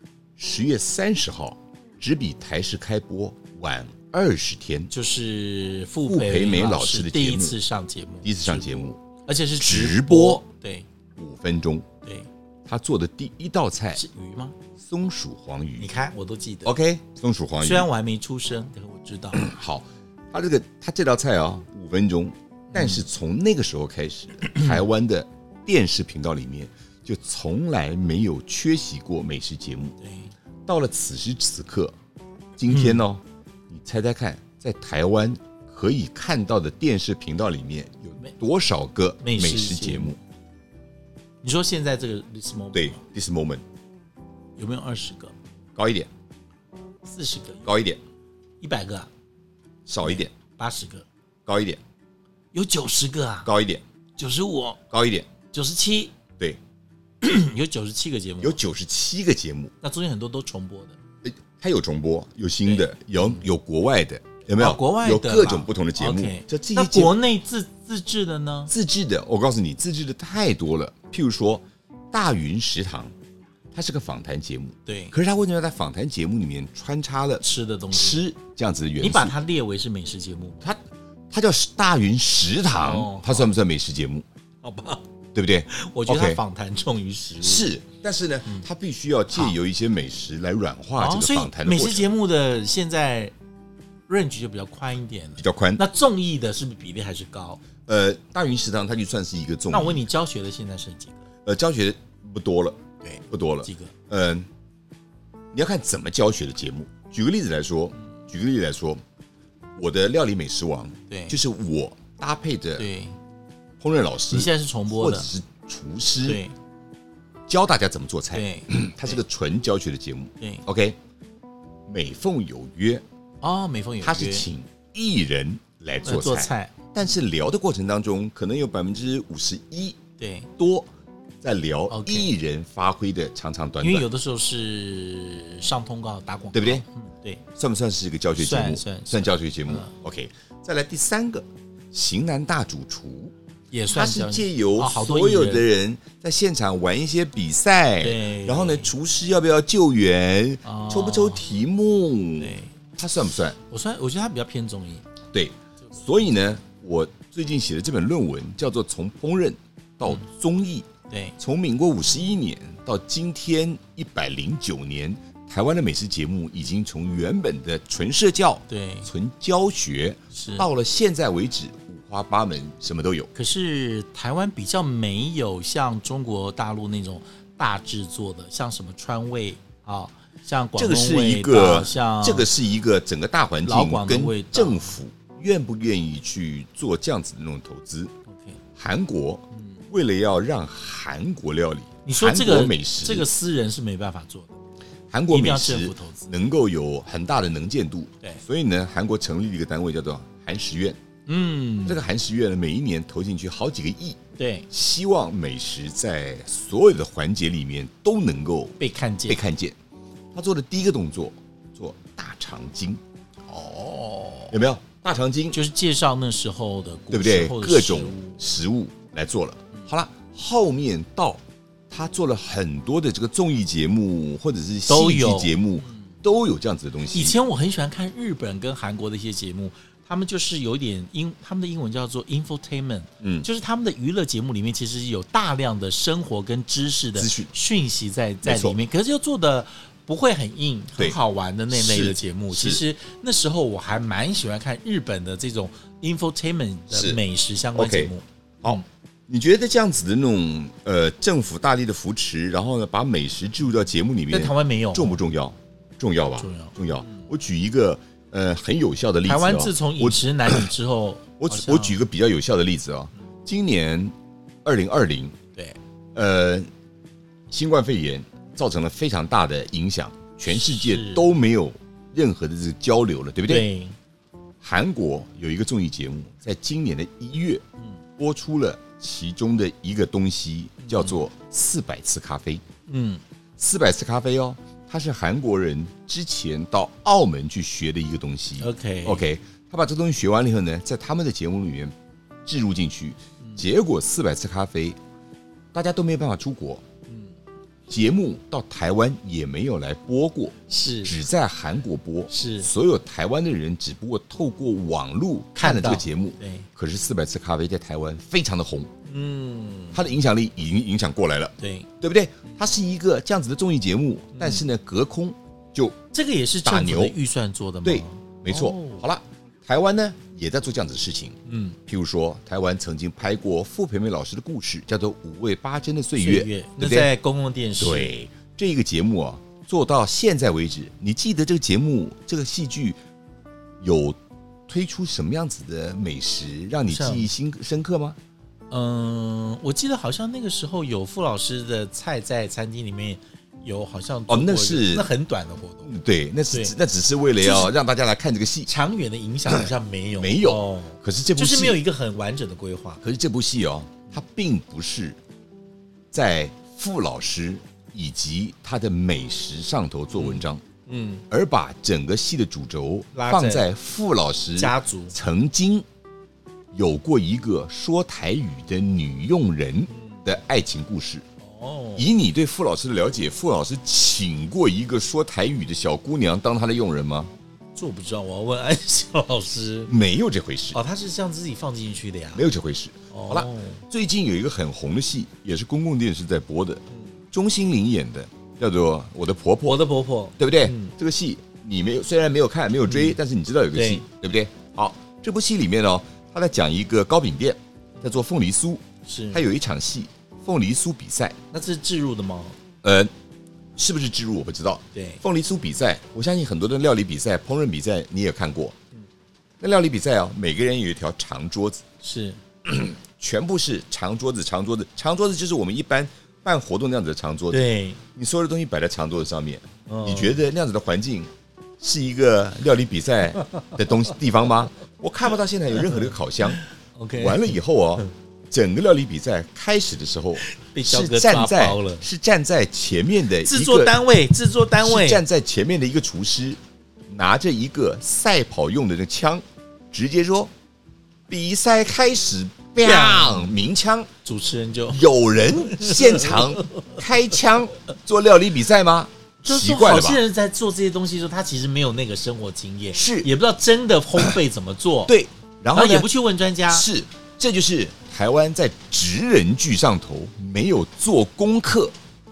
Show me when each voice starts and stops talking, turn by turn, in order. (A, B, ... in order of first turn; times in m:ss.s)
0:00.4-0:04.9 A
0:04.9-0:08.8 B
0:06.0-0:07.6 A
0:08.2-0:09.0 A
0:09.3-0:10.9 B
0:09.6-0:10.4 A
0:11.2-0:11.9 A
0:12.7-0:14.0 A
0:14.0-0:14.6 B
0:14.8-0:15.9 A
0:15.8-0:16.7 B
0:16.6-0:17.9 A
0:17.6-0:19.5 B
0:19.3-0:30.0 A
0:22.7-0:23.1 B
0:30.0-0:30.3 B
0:30.7-0:32.0 A
0:32.6-0:40.2 A
0:32.7-0:33.0 B
0:39.2-0:40.2 B
0:41.4-0:43.0 B
0:42.7-0:43.6 A
0:44.6-0:45.3 B
0:45.8-0:46.1 A
0:47.0-0:47.7 B
0:47.6-0:48.0 A
0:48.6-0:49.1 B
0:49.9-0:50.3 A
0:50.0-0:51.0 B
0:51.5-0:51.8 A
0:52.5-0:53.5 B
0:53.4-0:53.8 A
0:54.2-0:54.8 B
0:54.9-0:55.3 A
0:55.5-0:56.1 B
0:57.2-0:58.6 B
0:58.4-0:59.7 A
0:59.8-1:01.0 B
1:01.2-1:07.2 A
1:02.6-1:03.4 B
1:04.6-1:08.7 B
1:08.7-1:13.1 A
1:13.7-1:19.3 A
1:14.9-1:15.2 B
1:17.4-1:18.2 B
1:19.0-1:20.7 B
1:21.3-1:24.2 A
1:22.7-1:23.5 B
1:24.6-1:25.0 B
1:25.4-1:26.4 A
1:25.7-1:27.7 B
1:27.4-1:32.1 A
1:31.0-1:33.3 B
1:34.1-1:37.6 B
1:35.4-1:35.8 A
1:37.9-1:40.0 A
1:39.7-1:41.3 B
1:41.5-1:44.5 A
1:43.0-1:43.9 B
1:45.5-1:49.0 A
1:49.8-1:52.9 A
1:51.1-1:51.4 B
1:52.8-1:53.2 B
1:53.8-1:56.4 A
1:54.3-1:55.3 B
1:56.2-1:56.6 B
1:57.5-2:01.0 A
1:58.3-1:59.2 B
2:01.9-2:03.0 A
2:03.4-2:04.5 B
2:04.0-2:10.0 A
2:06.0-2:06.8 B
2:10.2-2:10.5 B
2:10.6-2:10.9 A
2:11.4-2:14.1 A
2:11.9-2:12.3 B
2:13.8-2:17.4 B
2:16.5-2:16.8 A
2:17.6-2:23.3 A
2:18.4-2:19.9 B
2:23.7-2:25.7 B
2:23.9-2:33.6 A
2:28.0-2:28.9 B
2:30.6-2:31.5 B
2:32.4-2:32.7 B
2:33.7-2:35.0 B
2:35.3-2:40.9 A
2:41.1-2:41.4 B
2:41.4-2:53.3 A
2:48.7-2:49.1 B
2:50.3-2:50.7 B
2:53.4-3:02.5 B
3:00.8-3:08.1 A
3:03.6-3:05.0 B
3:08.3-3:08.6 B
3:08.8-3:13.3 A
3:09.5-3:09.8 B
3:12.0-3:14.6 B
3:15.1-3:21.0 A
3:15.3-3:16.3 B
3:21.3-3:22.0 B
3:21.8-3:24.2 A
3:24.4-3:24.7 B
3:24.7-3:29.8 A
3:28.8-3:29.4 B
3:30.3-3:33.0 A
3:33.5-3:34.6 B
3:34.5-3:35.6 A
3:35.5-3:38.5 B
3:37.1-3:47.4 A
3:44.9-3:46.1 B
3:47.1-4:08.8 B
3:53.2-3:53.5 A
3:57.2-3:57.5 A
3:58.4-3:58.8 A
4:01.7-4:02.8 A
4:06.9-4:07.2 A
4:07.8-4:20.7 A
4:14.3-4:15.2 B
4:16.4-4:17.3 B
4:19.2-4:22.0 B
4:21.4-4:24.1 A
4:24.6-4:25.4 A
4:26.2-4:26.7 A
4:27.5-4:33.7 A
4:30.5-4:31.3 B
4:33.5-4:34.0 B
4:34.6-4:37.6 A
4:38.2-4:42.6 A
4:40.8-4:41.2 B
4:42.9-4:43.2 B
4:43.6-4:51.9 A
4:48.6-4:49.2 B
4:52.4-4:55.0 A
4:55.7-4:56.8 A
4:57.9-5:08.9 A
5:00.7-5:01.2 B
5:02.3-5:02.7 B
5:05.6-5:06.7 B
5:09.1-5:10.1 B
5:09.9-5:16.0 A
5:11.6-5:11.9 B
5:14.3-5:14.7 B
5:16.1-5:19.0 B
5:16.6-5:17.2 A
5:17.8-5:27.1 A
5:21.5-5:21.8 B
5:26.2-5:28.1 B
5:27.8-5:33.0 A
5:33.8-5:38.2 A
5:36.9-5:37.3 B
5:38.7-5:45.9 B
5:44.3-5:45.1 A
5:45.8-5:48.7 A
5:47.4-5:47.7 B
5:48.7-5:53.0 B
5:49.5-5:51.8 A
5:53.0-5:55.2 A
5:56.1-6:00.6 A
6:00.1-6:01.2 B
6:01.3-6:05.9 A
6:03.1-6:03.7 B
6:04.6-6:05.2 B
6:06.7-6:11.2 A
6:09.9-6:10.2 B
6:11.4-6:12.1 B
6:12.0-6:17.3 A
6:17.8-6:19.9 B
6:19.9-6:20.8 A
6:20.7-6:22.4 B
6:22.4-6:29.8 A
6:23.1-6:23.8 B
6:29.6-6:30.9 B
6:30.4-6:41.4 A
6:32.9-6:33.2 B
6:33.7-6:34.0 B
6:39.0-6:39.4 B
6:41.5-6:42.6 B
6:42.8-6:43.1 A
6:43.8-6:48.8 A
6:44.9-6:45.2 B
6:49.6-6:51.8 A
6:52.0-6:52.4 B
6:52.6-7:06.6 A
6:57.5-6:58.0 B
6:59.9-7:00.4 B
7:05.9-7:07.6 B
7:07.2-7:14.0 A
7:10.4-7:12.1 B
7:13.4-7:15.2 B
7:14.8-7:20.5 A
7:21.3-7:24.1 A
7:22.8-7:23.6 B
7:24.2-7:25.0 B
7:24.9-7:30.2 A
7:25.7-7:27.0 B
7:29.4-7:35.1 B
7:32.9-7:33.3 A
7:35.1-7:36.1 A
7:35.7-7:36.9 B
7:36.7-7:42.0 A